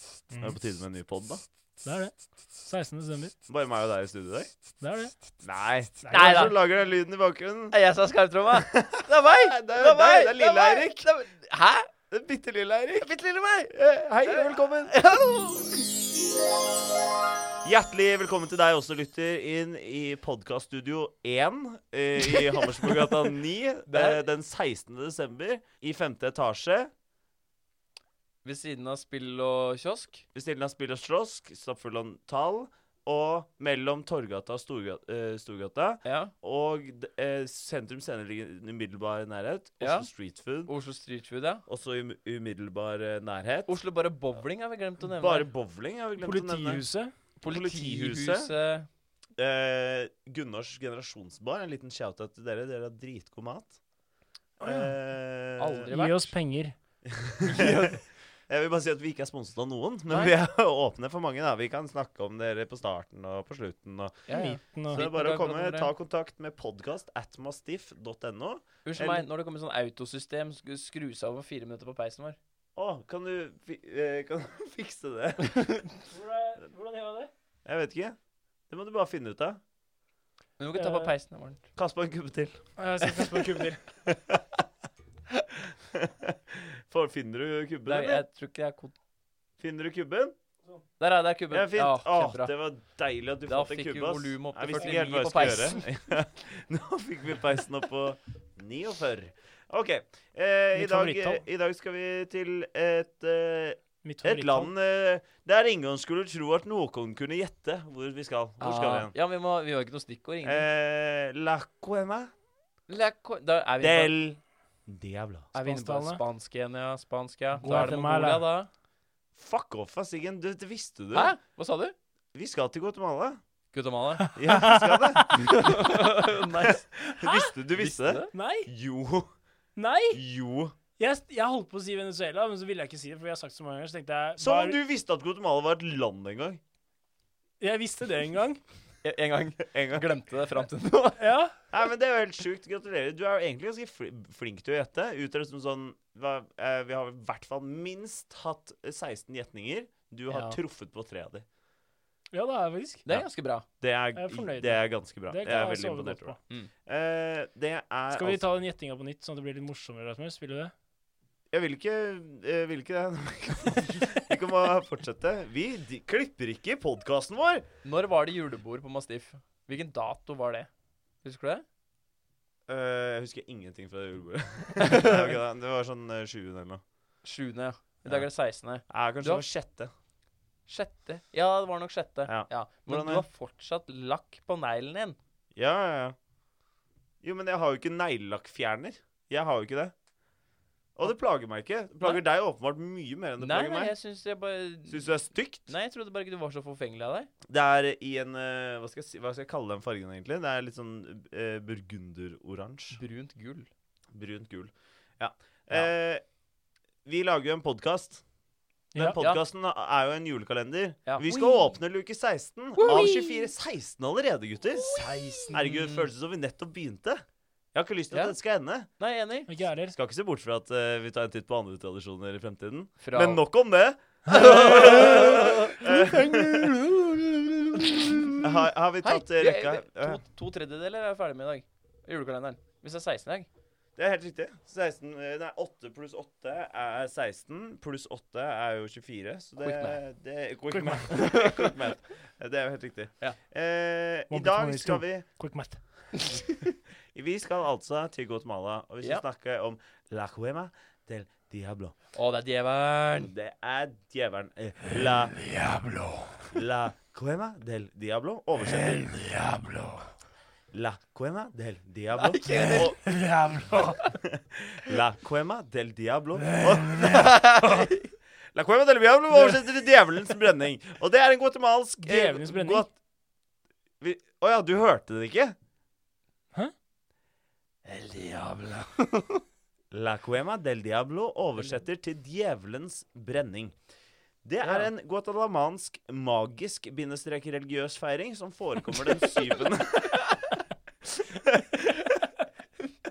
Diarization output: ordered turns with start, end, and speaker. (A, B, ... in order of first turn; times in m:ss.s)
0:00.3-0:00.6 A
0:00.4-0:01.4 B
0:01.8-0:03.4 A
0:03.5-0:04.5 B
0:04.8-0:05.3 A
0:05.4-0:07.8 B
0:06.0-0:06.5 A
0:06.1-0:06.6 C
0:07.7-0:11.9 C
0:08.5-0:11.1 B
0:12.1-0:13.1 B
0:13.0-0:13.7 C
0:13.7-0:15.0 B
0:14.2-0:15.9 C
0:17.6-0:26.9 B
0:23.9-0:24.2 C
0:28.4-0:30.2 C
0:30.4-0:40.7 B
0:36.0-0:36.3 C
0:39.8-0:40.1 C
0:40.7-0:41.6 C
0:41.7-0:43.7 B
0:43.7-0:45.5 C
0:45.2-0:46.8 B
0:46.2-0:47.1 A
0:47.4-0:48.9 C
0:47.4-0:48.5 B
0:49.4-0:53.8 B
0:54.6-0:55.0 C
0:54.6-0:55.9 B
0:55.6-0:56.4 C
0:55.9-0:56.7 A
0:57.1-1:04.3 B
0:57.4-0:58.0 C
1:00.1-1:00.3 C
1:04.3-1:05.9 C
1:04.3-1:05.1 A
1:04.9-1:09.3 B
1:08.8-1:12.4 C
1:12.8-1:15.6 B
1:15.5-1:15.8 C
1:16.1-1:17.3 A
1:17.7-1:18.2 B
1:18.7-1:19.6 B
1:20.6-1:21.6 C
1:20.8-1:21.1 A
1:21.8-1:22.6 B
1:22.8-1:23.8 A
1:24.1-1:24.6 B
1:25.7-1:28.2 B
1:27.9-1:29.0 C
1:29.6-1:30.3 B
1:31.0-1:32.5 C
1:31.5-1:49.1 B
1:33.5-1:35.8 C
1:34.8-1:35.6 A
1:40.8-1:41.4 A
1:44.0-1:44.7 A
1:48.6-1:50.7 C
1:50.4-1:52.3 B
1:52.9-1:54.1 C
1:53.8-1:55.5 B
1:55.5-1:58.7 C
1:55.6-1:56.2 A
1:57.6-1:58.5 A
1:59.4-2:01.3 B
2:01.1-2:02.0 C
2:02.3-2:03.4 B
2:03.7-2:04.3 C
2:04.2-2:05.6 A
2:04.4-2:05.7 B
2:05.3-2:08.3 C
2:07.1-2:09.3 B
2:08.3-2:08.7 A
2:09.8-2:10.2 A
2:10.1-2:10.8 B
2:11.0-2:14.8 A
2:14.4-2:16.6 B
2:17.6-2:18.6 A
2:19.0-2:21.2 C
2:19.7-2:20.1 B
2:21.2-2:21.6 A
2:21.7-2:31.4 B
2:30.3-2:30.6 C
2:32.3-2:33.0 A
2:33.0-2:33.7 C
2:33.8-2:38.4 B
2:34.2-2:36.4 A
2:38.1-2:40.7 A
2:41.5-2:47.7 B
2:47.8-2:50.7 C
2:51.2-2:51.6 C
2:52.7-2:56.8 B
2:54.8-2:55.3 C
2:57.2-2:59.4 C
2:58.9-2:59.9 B
3:00.7-3:05.2 C
3:02.3-3:03.3 B
3:05.6-3:06.2 B
3:07.2-3:09.9 B
3:11.0-3:13.9 B
3:13.4-3:15.1 C
3:14.9-3:15.7 B
3:15.7-3:17.3 C
3:17.5-3:23.0 B
3:23.0-3:23.7 C
3:24.1-3:26.2 B
3:27.0-3:28.2 B
3:29.0-3:35.0 B
3:29.2-3:29.4 C
3:32.8-3:33.2 C
3:32.8-3:33.4 A
3:34.9-3:36.1 C
3:35.5-3:38.9 B
3:39.0-3:39.5 C
3:39.5-3:40.0 A
3:39.9-3:46.8 B
3:43.0-3:43.4 C
3:44.3-3:45.8 C
3:44.3-3:48.3 A
3:47.8-3:48.4 C
3:48.4-3:50.2 B
3:49.0-3:53.5 C
3:54.0-4:05.2 B
3:59.6-4:00.0 C
4:00.7-4:01.2 A
4:01.1-4:01.7 C
4:04.3-4:06.1 A
4:07.1-4:11.9 B
4:12.1-4:13.3 C
4:13.2-4:15.6 B
4:16.5-4:19.2 B
4:20.7-4:23.2 B
4:22.2-4:23.1 C
4:23.1-4:24.0 A
4:23.7-4:24.1 C
4:24.2-4:27.3 B
4:26.5-4:27.9 A
4:26.9-4:28.1 C
4:28.5-4:32.9 B
4:32.0-4:32.9 A
4:34.0-4:35.6 B
4:37.9-4:39.3 C
4:39.9-4:43.8 B
4:44.4-4:50.4 B
4:51.3-4:51.7 B